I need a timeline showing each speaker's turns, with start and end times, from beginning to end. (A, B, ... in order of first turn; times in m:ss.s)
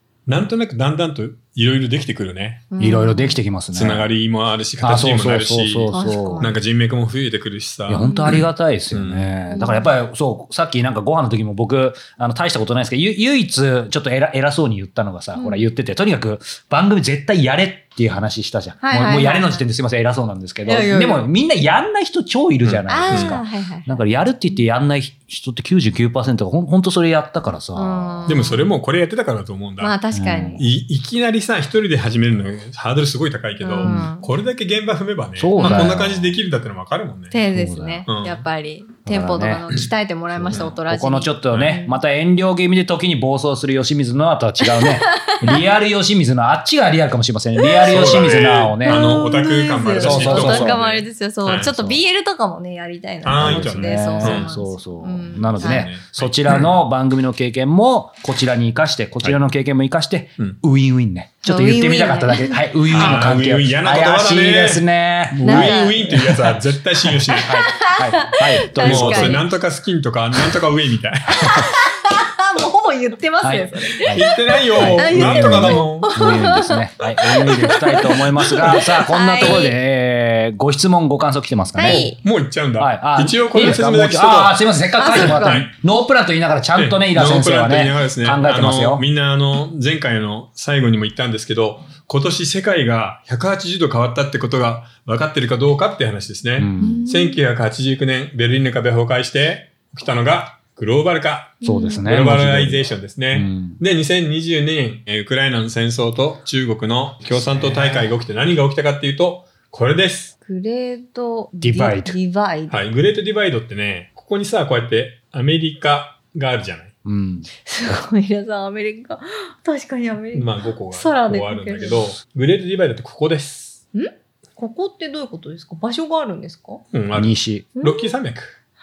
0:00.3-0:02.7 A
0:02.7-0:03.4 B
0:02.8-0:04.1 C
0:03.7-0:09.3 A
0:04.8-0:06.5 C
0:05.9-0:06.6 B
0:07.9-0:28.3 C
0:07.9-0:08.4 B
0:09.5-0:09.9 B
0:15.3-0:15.7 B
0:18.8-0:19.6 B
0:20.6-0:21.3 B
0:22.6-0:23.4 A
0:22.9-0:23.9 B
0:27.7-0:28.7 B
0:28.2-0:29.9 A
0:29.8-0:30.6 B
0:30.1-0:30.6 C
0:30.6-0:37.4 A
0:33.6-0:34.3 B
0:33.8-0:34.1 C
0:35.4-0:36.4 C
0:35.6-0:35.9 B
0:37.3-0:42.0 B
0:37.5-0:38.0 C
0:38.1-0:38.4 A
0:39.0-0:39.7 C
0:40.3-0:49.1 C
0:41.5-0:41.8 A
0:44.6-0:45.6 B
0:47.6-0:48.1 B
0:47.8-0:51.7 A
0:48.8-0:55.9 B
0:50.0-0:50.8 C
0:51.6-0:52.0 C
0:53.2-0:54.5 A
0:53.3-1:06.2 C
0:55.6-0:56.7 A
1:01.4-1:02.6 B
1:02.9-1:07.5 A
1:05.4-1:06.5 B
1:07.3-1:09.5 B
1:07.4-1:09.4 C
1:08.8-1:11.6 A
1:11.3-1:11.7 C
1:11.4-1:19.8 B
1:13.4-1:22.1 C
1:14.1-1:16.3 A
1:18.4-1:18.9 A
1:21.8-1:22.2 B
1:21.8-1:25.7 A
1:22.8-1:29.0 C
1:25.0-1:25.7 B
1:26.7-1:50.3 A
1:36.6-1:37.0 C
1:36.8-1:37.4 B
1:41.6-1:42.0 B
1:41.6-1:43.8 C
1:47.4-1:48.1 C
1:50.4-1:52.8 B
1:51.6-1:52.2 C
1:52.7-1:56.9 A
1:57.0-1:57.5 C
1:57.6-2:02.1 B
2:00.3-2:03.8 A
2:03.9-2:06.8 B
2:06.9-2:08.6 A
2:07.1-2:07.7 C
2:07.8-2:08.1 B